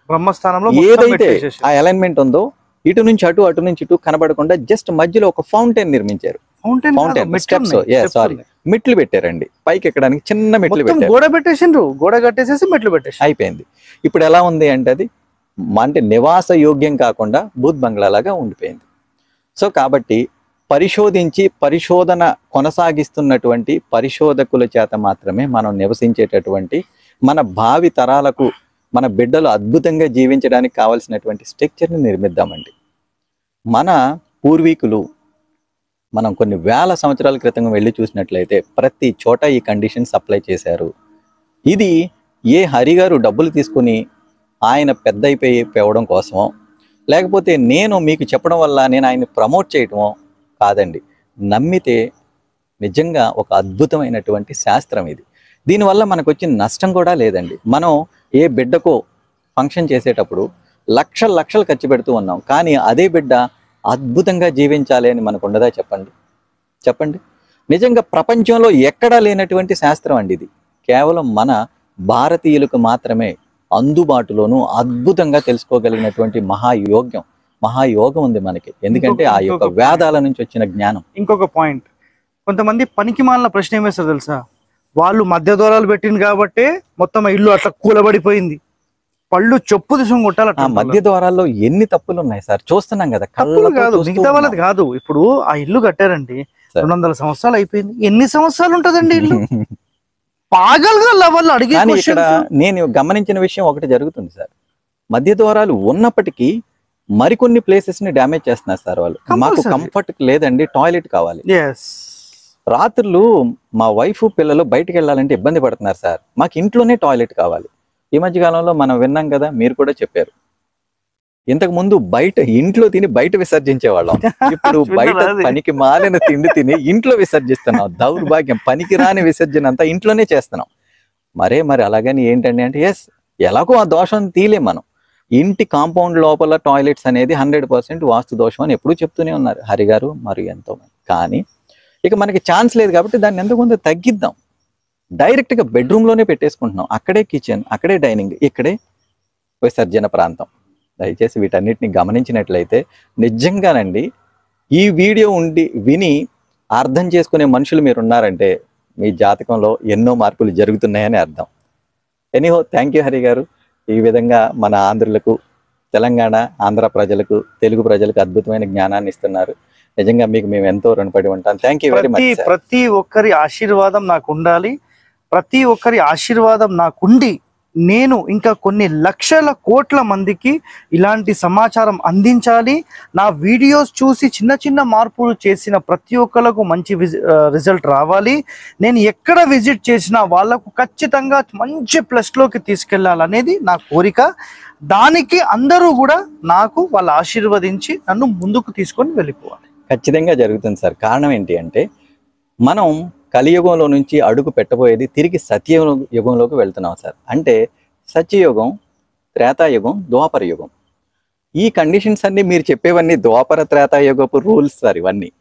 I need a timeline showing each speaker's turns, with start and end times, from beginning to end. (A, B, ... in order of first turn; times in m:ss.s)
0:00.1-0:01.6 A
0:00.7-0:06.4 B
0:06.6-0:08.4 A
0:07.0-0:11.1 B
0:10.7-0:13.2 A
0:13.2-0:15.1 B
0:15.8-0:18.8 B
0:19.6-0:32.7 B
0:33.7-0:35.0 B
0:36.2-0:40.9 B
0:42.5-0:44.0 B
0:44.7-0:46.5 B
0:47.1-0:52.0 B
0:52.8-0:59.0 B
0:59.6-1:00.4 B
1:01.0-1:03.4 B
1:03.9-1:06.1 B
1:06.8-1:07.2 B
1:07.7-1:11.5 B
1:12.1-1:21.0 B
1:18.9-1:20.0 A
1:21.2-1:21.9 A
1:22.5-1:24.4 A
1:25.0-1:28.6 A
1:29.3-1:31.0 A
1:30.6-1:34.6 B
1:33.4-1:39.4 A
1:39.2-1:39.7 B
1:40.5-1:42.3 A
1:41.8-1:44.5 B
1:45.1-1:46.5 B
1:47.2-1:51.4 B
1:49.3-1:49.9 A
1:51.5-1:51.9 A
1:52.7-1:53.2 B
1:53.8-2:00.3 B
2:01.5-2:10.7 B
2:04.2-2:06.6 A
2:11.4-2:14.8 B
2:15.4-2:21.4 B
2:22.0-2:24.3 B
2:25.2-2:28.7 B
2:29.6-2:30.5 B
2:31.0-2:34.0 B
2:34.8-2:36.1 B
2:36.8-2:38.5 B
2:39.0-2:41.5 B
2:42.4-2:45.3 B
2:45.9-2:52.5 B
2:51.9-2:54.7 A
2:55.3-2:57.4 A
2:57.9-3:14.3 A
3:14.9-3:19.6 A
3:19.9-3:21.8 B
3:22.7-3:27.6 B
3:28.1-3:28.7 B
3:29.4-3:30.7 B
3:31.6-3:35.3 B